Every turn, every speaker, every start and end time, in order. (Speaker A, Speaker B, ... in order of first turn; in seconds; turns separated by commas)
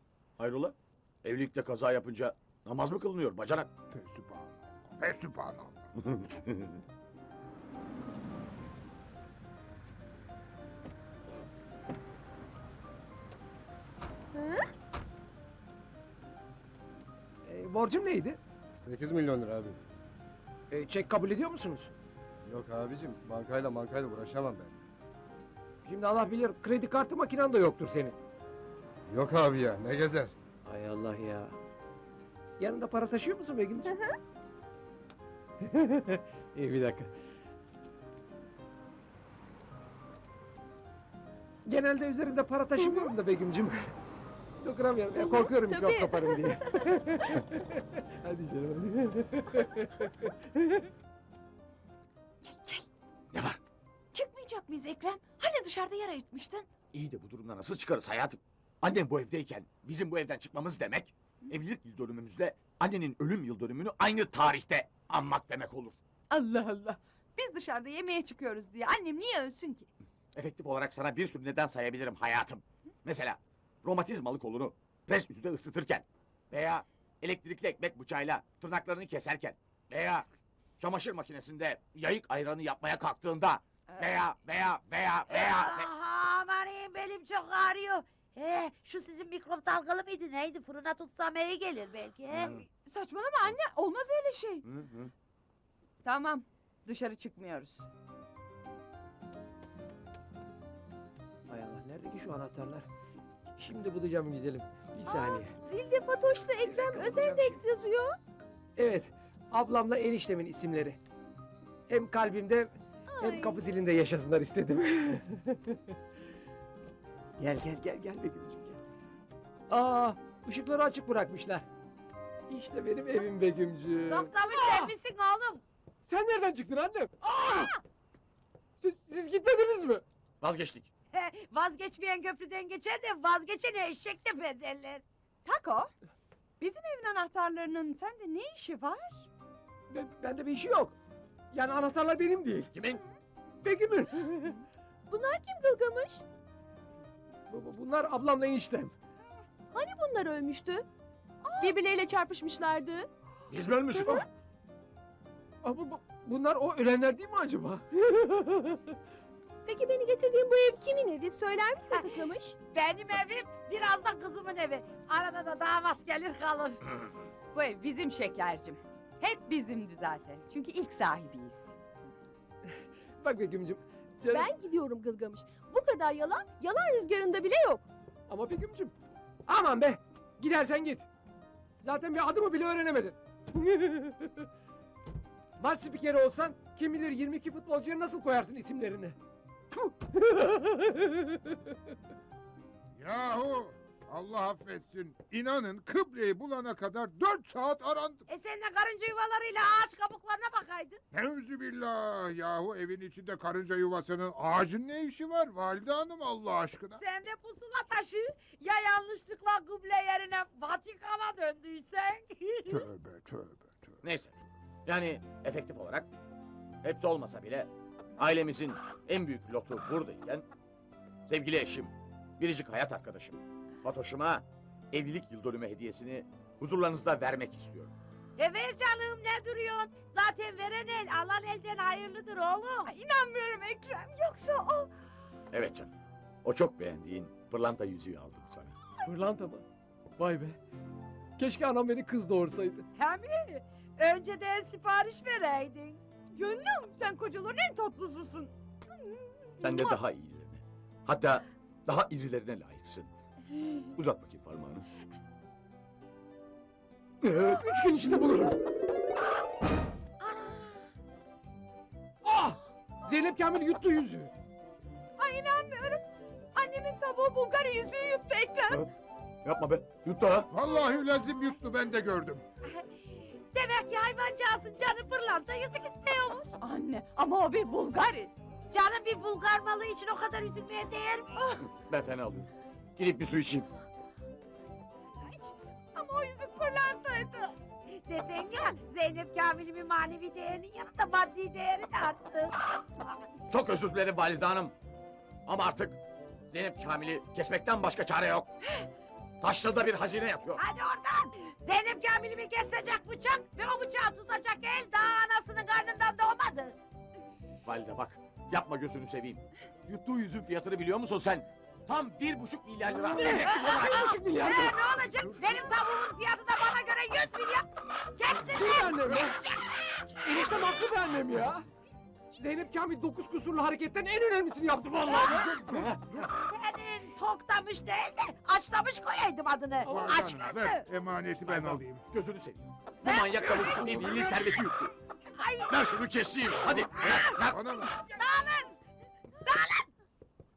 Speaker A: 0.4-3.7, Speaker B: 3.9-5.9, Speaker A: 6.0-6.7, Speaker C: 14.3-14.7, Speaker D: 17.4-18.4, Speaker E: 18.8-19.8, Speaker D: 20.7-21.9, Speaker E: 22.4-24.7, Speaker D: 25.8-28.2, Speaker E: 29.1-30.3, Speaker D: 30.6-31.6, Speaker D: 32.6-34.0, Speaker D: 35.6-37.1, Speaker D: 41.6-43.9, Speaker C: 42.8-43.1, Speaker D: 44.6-50.9, Speaker C: 45.1-47.4, Speaker F: 52.5-52.9, Speaker A: 53.3-53.6, Speaker F: 54.1-56.7, Speaker A: 56.9-66.0, Speaker F: 66.3-69.9, Speaker A: 70.3-80.3, Speaker A: 80.8-85.9, Speaker G: 85.3-92.5, Speaker F: 92.3-94.6, Speaker A: 92.4-92.6, Speaker A: 94.6-95.1, Speaker F: 96.0-97.9, Speaker D: 101.5-102.9, Speaker D: 103.6-105.5, Speaker C: 105.0-108.2, Speaker D: 106.6-107.6, Speaker D: 108.8-111.0, Speaker D: 111.9-115.8, Speaker C: 113.1-113.6, Speaker D: 117.4-118.8, Speaker D: 119.7-121.7, Speaker D: 122.5-124.9, Speaker G: 124.1-125.6, Speaker D: 126.0-127.7, Speaker D: 128.8-130.0, Speaker A: 130.4-130.9, Speaker G: 131.1-135.0, Speaker F: 135.4-135.9, Speaker F: 136.6-139.3, Speaker D: 139.9-141.0, Speaker D: 141.5-142.7, Speaker A: 142.7-143.0, Speaker D: 143.6-144.6, Speaker C: 145.1-146.2, Speaker D: 147.5-148.9, Speaker C: 149.7-150.8, Speaker C: 151.4-153.1, Speaker A: 153.5-154.2, Speaker C: 153.9-154.2, Speaker D: 155.6-158.8, Speaker C: 159.6-162.6, Speaker G: 162.7-166.8, Speaker F: 167.5-171.8, Speaker D: 172.7-174.5, Speaker C: 174.3-177.9, Speaker D: 178.3-178.9, Speaker D: 179.5-181.1, Speaker D: 181.8-184.4, Speaker D: 185.6-189.2, Speaker D: 189.7-191.7, Speaker B: 192.9-198.2, Speaker G: 198.3-201.0, Speaker B: 201.1-207.0, Speaker G: 206.9-212.9, Speaker B: 212.7-214.0, Speaker A: 214.0-214.3, Speaker A: 214.8-216.1, Speaker A: 216.8-220.4, Speaker A: 221.3-227.9, Speaker G: 228.4-232.9, Speaker F: 232.8-234.9, Speaker A: 235.5-235.9, Speaker A: 236.4-238.8, Speaker D: 239.0-239.7, Speaker D: 240.2-240.6, Speaker D: 241.4-242.8, Speaker G: 242.9-246.0, Speaker F: 246.3-249.9, Speaker A: 249.6-253.1, Speaker A: 253.9-254.8, Speaker D: 257.2-258.6, Speaker A: 257.2-257.6, Speaker D: 262.2-264.3, Speaker F: 265.2-268.8, Speaker A: 269.4-270.5, Speaker B: 270.5-272.4, Speaker G: 273.3-276.5, Speaker F: 276.6-278.3, Speaker G: 278.7-281.4, Speaker F: 281.4-281.6, Speaker A: 281.7-283.7, Speaker F: 285.2-287.5, Speaker G: 288.0-292.5, Speaker A: 293.5-294.7, Speaker A: 295.4-296.0, Speaker A: 296.5-298.5, Speaker A: 299.4-300.6, Speaker G: 300.5-306.8, Speaker A: 307.6-314.1, Speaker D: 312.9-314.8, Speaker G: 313.3-320.5, Speaker D: 318.5-319.3, Speaker D: 320.2-321.6, Speaker D: 322.4-325.5, Speaker G: 325.1-325.5, Speaker B: 325.3-326.3, Speaker A: 325.7-326.0, Speaker G: 326.3-330.8, Speaker B: 329.8-332.0, Speaker A: 331.4-334.9, Speaker G: 333.0-334.4, Speaker G: 335.3-335.8, Speaker A: 335.7-337.6, Speaker G: 337.0-337.4, Speaker B: 337.2-338.0, Speaker G: 338.0-338.8, Speaker G: 339.4-339.9